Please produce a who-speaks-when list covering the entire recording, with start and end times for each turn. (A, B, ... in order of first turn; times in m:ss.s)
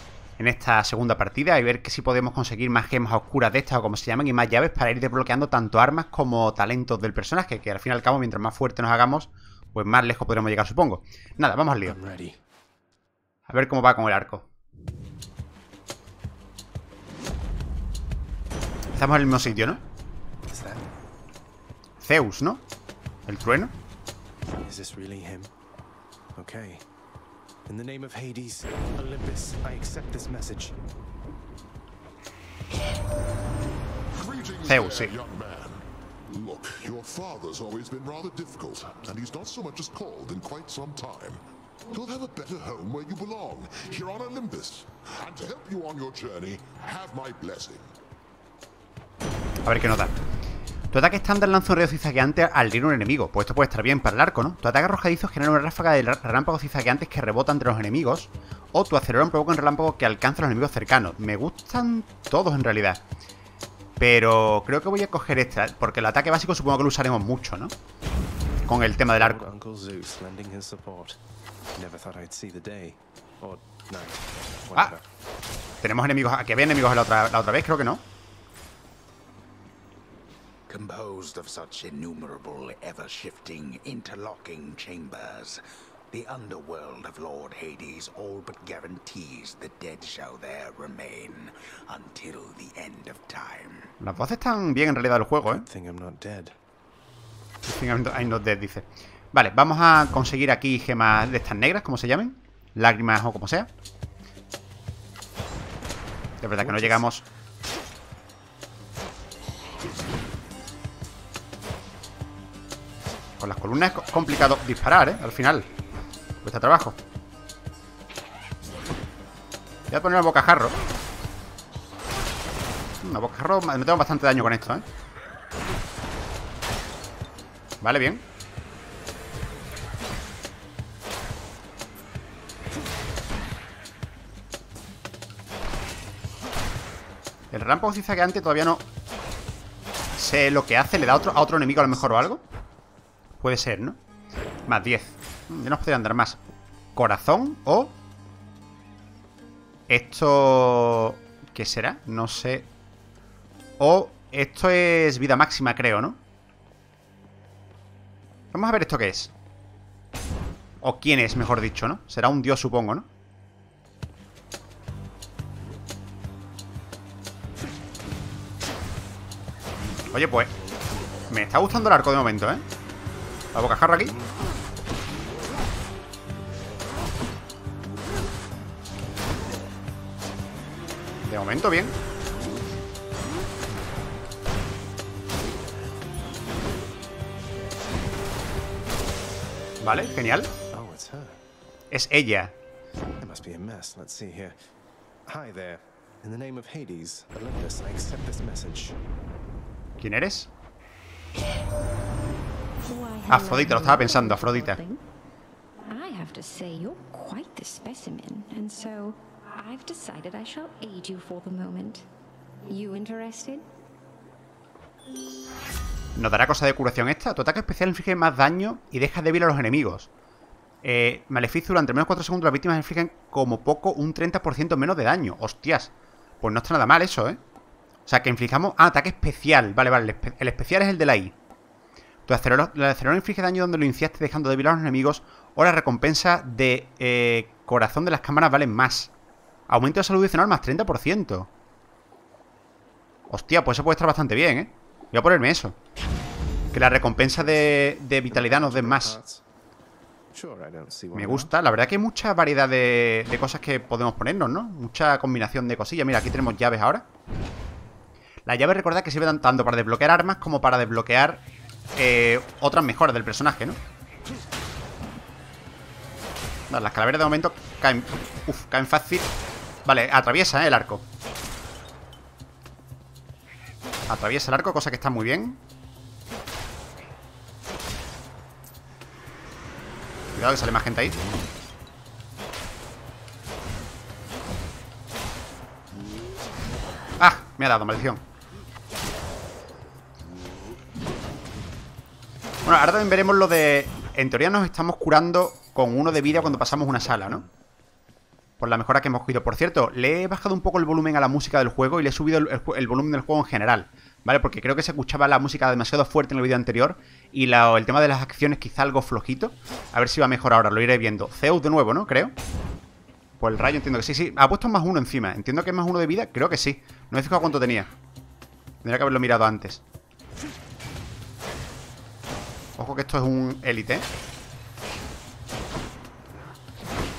0:00.4-0:12.0 A
0:11.8-0:12.4 B
0:13.5-0:14.4 A
0:19.0-0:19.8 A
0:19.3-0:19.8 B
0:20.5-0:20.9 B
0:22.0-0:22.6 A
0:23.3-0:23.7 A
0:24.6-0:25.5 B
0:26.4-0:26.8 B
0:27.7-0:30.8 B
0:34.2-0:47.9 C
0:34.7-0:35.1 A
0:49.6-0:50.1 A
0:50.9-1:03.0 A
1:04.0-1:07.7 A
1:08.7-1:09.4 A
1:09.1-1:11.2 B
1:11.8-1:15.0 B
1:15.8-1:18.0 A
1:20.7-1:33.9 D
1:34.0-1:35.7 A
1:35.4-1:36.6 B
1:37.7-1:43.7 A
1:46.4-1:47.2 A
1:46.6-1:47.1 B
1:53.4-1:55.7 A
1:56.4-1:57.0 A
1:59.9-2:00.8 A
2:03.0-2:04.8 A
2:07.8-2:08.2 A
2:17.5-2:18.8 A
2:20.2-2:22.4 A
2:23.4-2:24.0 A
2:24.7-2:26.4 A
2:27.0-2:27.9 A
2:29.9-2:32.7 A
2:33.8-2:36.2 A
2:38.5-2:39.3 A
2:40.8-2:43.1 A
2:50.1-2:50.5 A
2:51.3-2:52.6 A
2:53.5-2:54.2 A
3:01.2-3:01.9 A
3:09.8-3:10.5 A
3:10.7-3:11.4 B
3:11.9-3:12.5 A
3:13.2-3:14.6 B
3:15.3-3:19.0 B
3:20.0-3:20.5 A
3:22.8-3:25.0 E
3:23.3-3:24.8 A
3:25.9-3:32.0 E
3:32.7-3:33.7 E
3:36.2-3:40.1 A
3:40.8-3:47.4 A
3:48.1-3:51.3 A
3:52.3-3:59.1 A
3:59.7-4:01.5 A
4:03.3-4:05.8 A
4:06.7-4:09.2 A
4:07.2-4:09.4 B
4:10.3-4:11.5 B
4:11.2-4:17.0 A
4:18.5-4:21.4 A
4:22.0-4:23.8 A
4:26.7-4:29.3 A
4:29.8-4:31.0 A
4:34.1-4:35.6 A
4:40.4-4:41.2 A
4:47.2-4:48.2 A
4:52.6-4:57.4 A
4:56.1-4:57.5 B
4:58.6-5:12.3 A
5:13.4-5:17.9 A
5:18.8-5:19.8 A
5:22.8-5:24.0 A